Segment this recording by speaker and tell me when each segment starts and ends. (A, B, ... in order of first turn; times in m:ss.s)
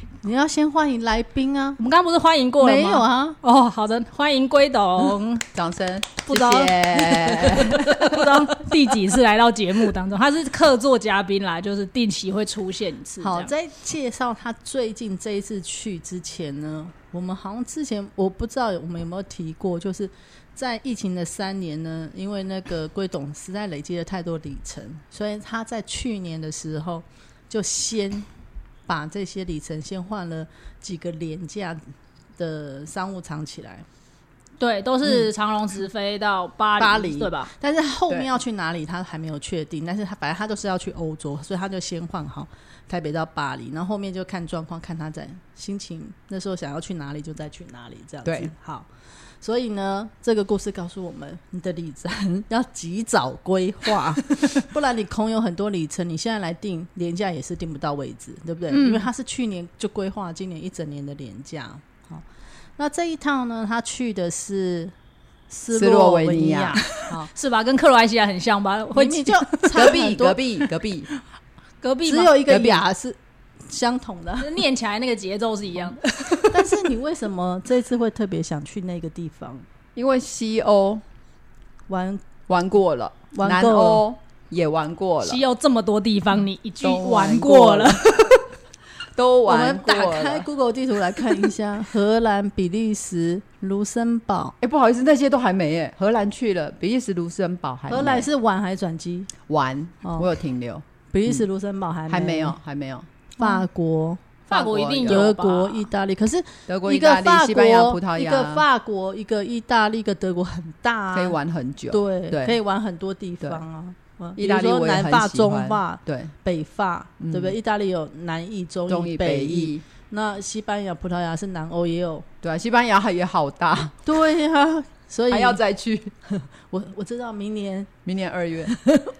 0:00.2-0:01.8 A
0:01.8-0:05.4 B
0:02.6-0:03.4 A
0:05.5-0:07.9 C
0:06.3-0:08.7 A
0:06.3-0:06.7 B
0:07.5-0:13.5 B
0:13.2-0:28.3 A
0:28.9-0:31.8 A
0:32.4-0:33.8 A
0:34.6-0:37.5 B
0:36.8-0:48.9 A
0:48.2-0:48.5 C
0:49.4-1:02.2 A
0:58.7-0:59.1 B
1:02.8-1:04.9 A
1:05.5-1:06.9 A
1:05.7-1:07.3 C
1:07.0-1:09.9 B
1:08.9-1:10.4 A
1:09.7-1:11.1 C
1:11.8-1:12.4 B
1:12.0-1:14.6 A
1:12.5-1:12.8 C
1:14.4-1:16.8 B
1:16.5-1:19.6 A
1:20.0-1:21.0 C
1:21.9-1:22.2 A
1:22.5-1:25.4 C
1:23.3-1:24.0 A
1:25.2-1:28.4 B
1:26.8-1:28.4 C
1:29.2-1:30.5 C
1:29.4-1:34.5 A
1:31.1-1:31.5 C
1:34.6-1:38.3 C
1:37.9-1:39.3 A
1:39.5-1:41.4 C
1:40.0-1:40.3 A
1:41.1-1:42.6 A
1:42.1-1:43.1 C
1:43.4-1:44.2 A
1:43.4-1:43.6 B
1:44.5-1:45.9 B
1:44.5-1:45.3 C
1:45.0-1:51.4 A
1:46.7-1:48.6 C
1:51.1-1:52.6 C
1:51.9-2:02.2 A
1:54.4-1:56.3 C
1:57.2-1:57.5 C
1:58.9-1:59.8 C
2:02.4-2:04.0 C
2:04.0-2:05.6 A
2:05.3-2:06.1 C
2:06.3-2:07.9 A
2:08.0-2:08.8 C
2:08.7-2:09.1 A